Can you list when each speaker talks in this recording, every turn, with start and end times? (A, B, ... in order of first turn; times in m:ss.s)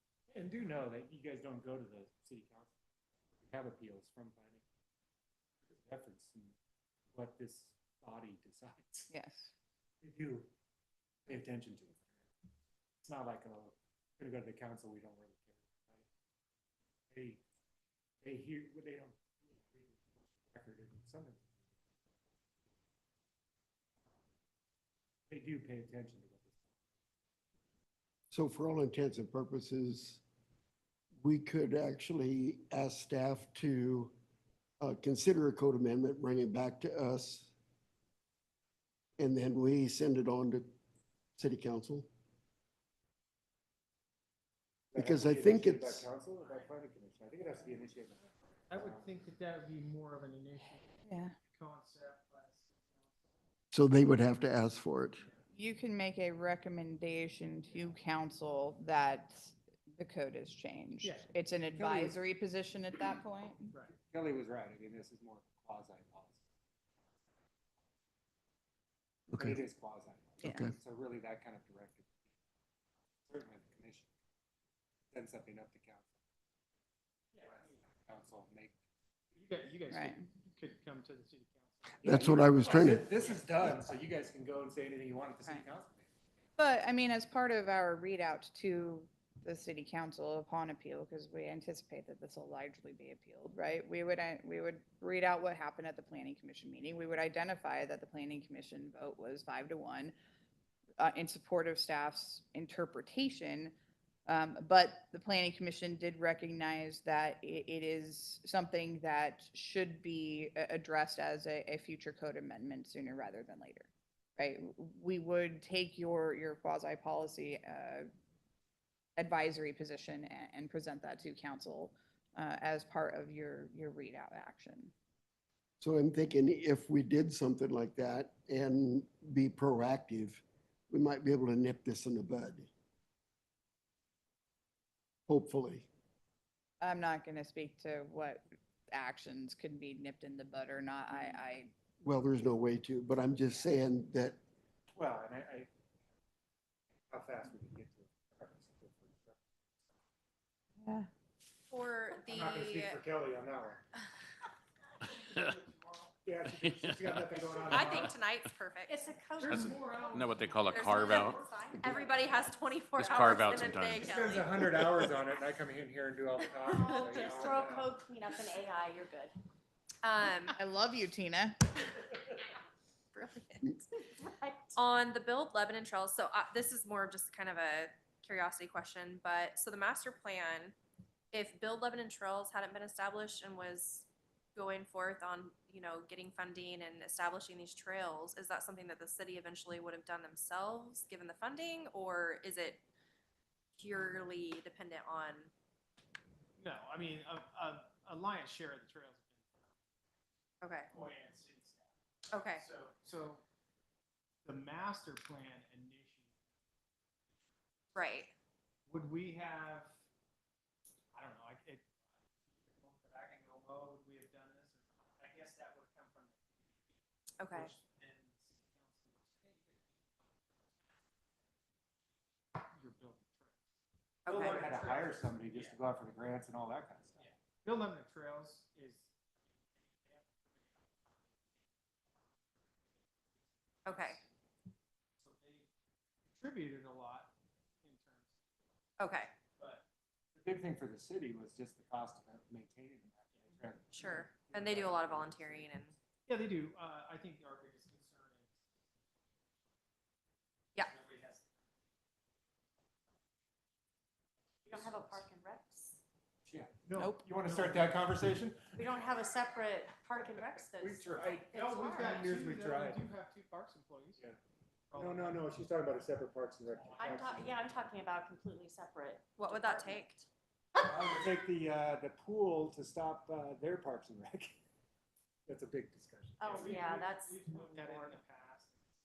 0:00.3-0:02.7 A
0:03.4-0:04.6 A
0:05.7-0:06.5 A
0:07.1-0:09.1 A
0:09.1-0:09.5 B
0:10.0-0:10.5 A
0:11.3-0:12.1 A
0:13.0-0:16.1 A
0:17.1-0:17.4 A
0:18.2-0:21.5 A
0:25.3-0:26.6 A
0:28.3-0:30.2 C
0:31.2-0:34.1 C
0:34.8-0:37.5 C
0:39.2-0:40.7 C
0:41.4-0:42.1 C
0:44.9-0:49.1 A
0:45.0-0:46.0 C
0:48.7-0:50.8 D
0:51.1-0:51.4 B
0:51.5-0:53.1 D
0:53.7-0:55.3 C
0:55.5-1:03.7 B
1:01.0-1:02.2 D
1:03.7-1:04.0 D
1:04.1-1:06.4 A
1:09.3-1:12.3 A
1:09.3-1:09.6 C
1:10.4-1:10.7 C
1:13.3-1:14.1 A
1:15.1-1:16.1 A
1:17.4-1:18.8 A
1:19.4-1:23.4 D
1:19.9-1:20.3 B
1:22.0-1:26.0 A
1:22.0-1:23.1 C
1:26.6-1:40.2 B
1:41.0-1:43.7 B
1:44.3-1:58.1 B
1:59.2-2:04.9 B
2:05.8-2:12.7 C
2:15.3-2:15.9 C
2:16.8-2:21.7 B
2:22.0-2:24.4 C
2:25.0-2:25.7 A
2:27.1-2:29.4 A
2:30.8-2:31.1 B
2:31.7-2:33.0 E
2:32.3-2:33.8 A
2:35.6-2:36.1 D
2:36.2-2:38.2 A
2:36.6-2:37.3 F
2:37.7-2:39.0 E
2:38.9-2:40.2 G
2:39.4-2:40.5 D
2:39.4-2:41.9 F
2:40.7-2:45.0 E
2:41.1-2:41.8 G
2:41.1-2:42.2 D
2:42.9-2:44.5 F
2:44.0-2:47.9 A
2:46.6-2:49.4 G
2:46.8-2:47.3 E
2:50.0-2:50.6 E
2:50.6-2:51.6 B
2:53.1-2:54.0 E
2:54.2-2:54.8 G
2:54.8-3:00.8 E
3:01.3-3:12.8 E
3:13.8-3:15.5 E
3:16.6-3:19.6 D
3:20.6-3:20.9 E
3:20.9-3:23.4 D
3:22.3-3:22.7 E
3:24.4-3:26.4 D
3:28.0-3:28.3 E
3:28.9-3:30.0 D
3:31.1-3:31.9 D
3:32.7-3:36.4 D
3:37.4-3:37.7 E
3:37.5-3:39.9 D
3:42.6-3:43.6 D
3:44.3-3:44.6 E
3:44.3-3:45.8 D
3:44.3-3:47.2 A
3:47.2-3:49.1 D
3:53.8-3:54.2 D
3:53.9-3:54.2 E
3:55.2-3:55.7 D
3:56.4-3:58.3 D
3:59.0-3:59.3 E
3:59.6-3:59.8 D
4:00.4-4:05.8 A
4:03.9-4:05.9 E
4:06.3-4:08.5 D
4:10.8-4:11.4 D
4:14.7-4:15.3 D
4:14.7-4:16.0 G
4:16.5-4:19.0 A
4:16.9-4:18.1 D
4:18.7-4:22.3 G
4:20.3-4:23.0 A
4:21.4-4:24.2 D
4:24.9-4:25.4 D
4:24.9-4:27.6 A
4:27.0-4:30.2 G
4:29.4-4:30.2 E
4:30.8-4:34.6 A
4:35.5-4:36.9 A
4:36.4-4:38.2 G
4:36.6-4:38.7 D